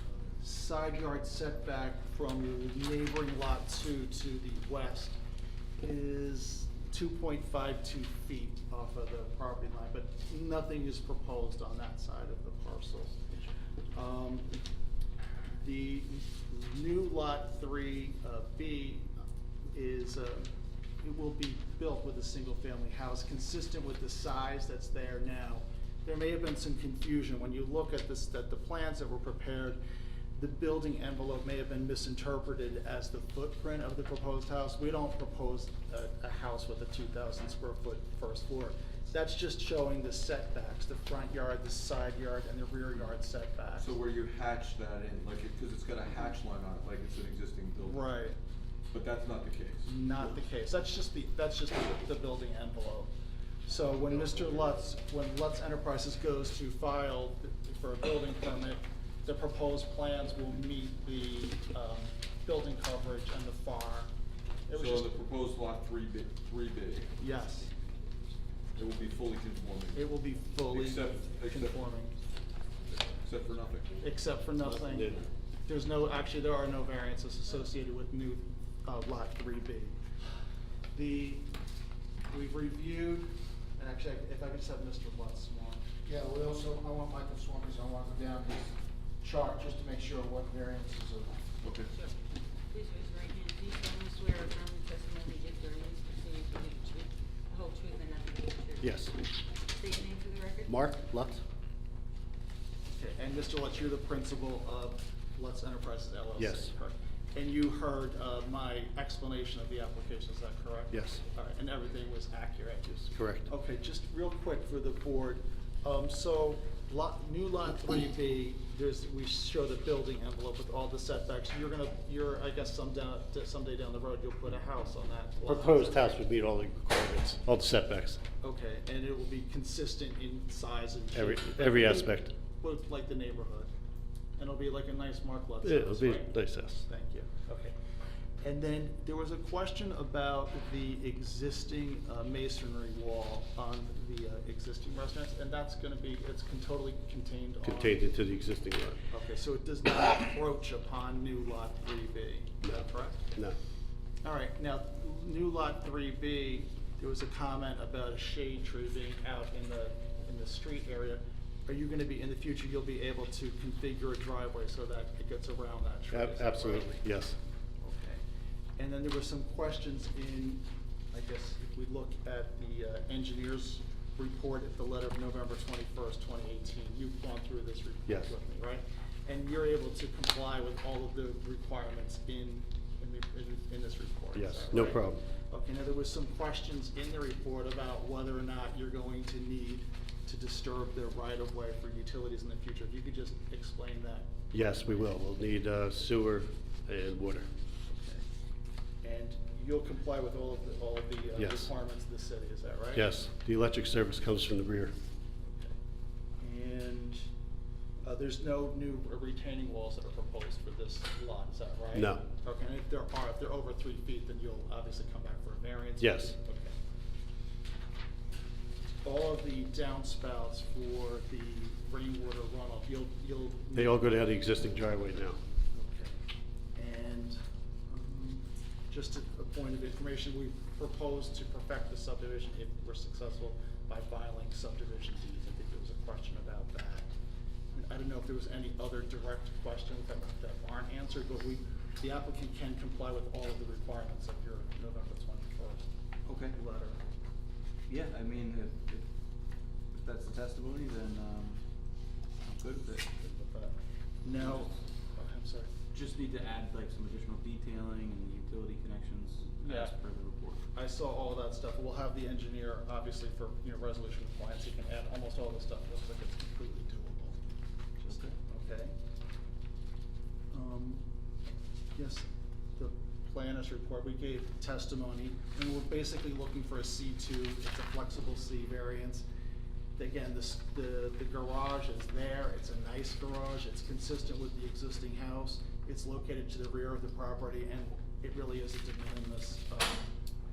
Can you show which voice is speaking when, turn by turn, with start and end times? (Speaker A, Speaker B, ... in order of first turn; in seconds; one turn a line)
Speaker A: 0.4-5.2
Speaker A: 5.8-13.3
Speaker A: 13.9-14.7
Speaker A: 15.6-20.5
Speaker A: 21.0-29.8
Speaker A: 30.4-43.9
Speaker B: 43.8-48.0
Speaker A: 47.8-48.4
Speaker B: 48.9-49.9
Speaker A: 49.9-53.1
Speaker A: 53.7-64.1
Speaker A: 64.7-65.1
Speaker B: 64.8-67.1
Speaker A: 67.2-67.7
Speaker B: 68.8-70.0
Speaker A: 69.9-72.2
Speaker B: 70.7-71.8
Speaker B: 73.2-73.9
Speaker A: 74.0-80.0
Speaker C: 74.6-75.2
Speaker A: 80.9-81.5
Speaker A: 82.3-85.9
Speaker D: 86.0-91.3
Speaker B: 91.6-91.9
Speaker E: 92.7-98.8
Speaker C: 98.8-99.2
Speaker E: 99.8-100.6
Speaker C: 100.7-101.4
Speaker A: 102.9-126.2
Speaker C: 106.4-106.7
Speaker C: 110.9-111.2
Speaker C: 113.1-113.5
Speaker C: 125.5-128.2
Speaker A: 128.4-133.7
Speaker C: 131.1-132.3
Speaker A: 134.4-137.8
Speaker C: 135.6-136.8
Speaker A: 138.4-148.1
Speaker C: 147.6-149.0
Speaker A: 149.1-153.3
Speaker C: 152.6-153.6
Speaker A: 154.2-167.1
Speaker C: 166.1-167.4
Speaker A: 167.8-168.2
Speaker A: 168.8-195.1
Speaker C: 184.3-185.2
Speaker C: 194.5-197.5
Speaker A: 197.9-198.2
Speaker A: 199.0-203.1
Speaker C: 201.4-201.7
Speaker C: 202.9-204.9
Speaker A: 205.4-205.8
Speaker A: 206.4-207.3
Speaker A: 208.0-216.8
Speaker C: 211.9-212.2
Speaker C: 216.0-216.3
Speaker A: 219.0-224.4
Speaker C: 223.8-225.4
Speaker A: 225.7-226.2
Speaker A: 226.8-237.1
Speaker A: 237.7-245.9
Speaker A: 246.5-247.0
Speaker F: 247.9-249.0
Speaker F: 250.0-251.6
Speaker F: 252.4-253.1
Speaker A: 253.2-255.7
Speaker F: 254.4-254.7
Speaker F: 255.9-260.6
Speaker A: 259.6-259.9
Speaker A: 260.7-267.4
Speaker A: 268.1-268.9
Speaker A: 270.5-279.3
Speaker A: 280.0-290.1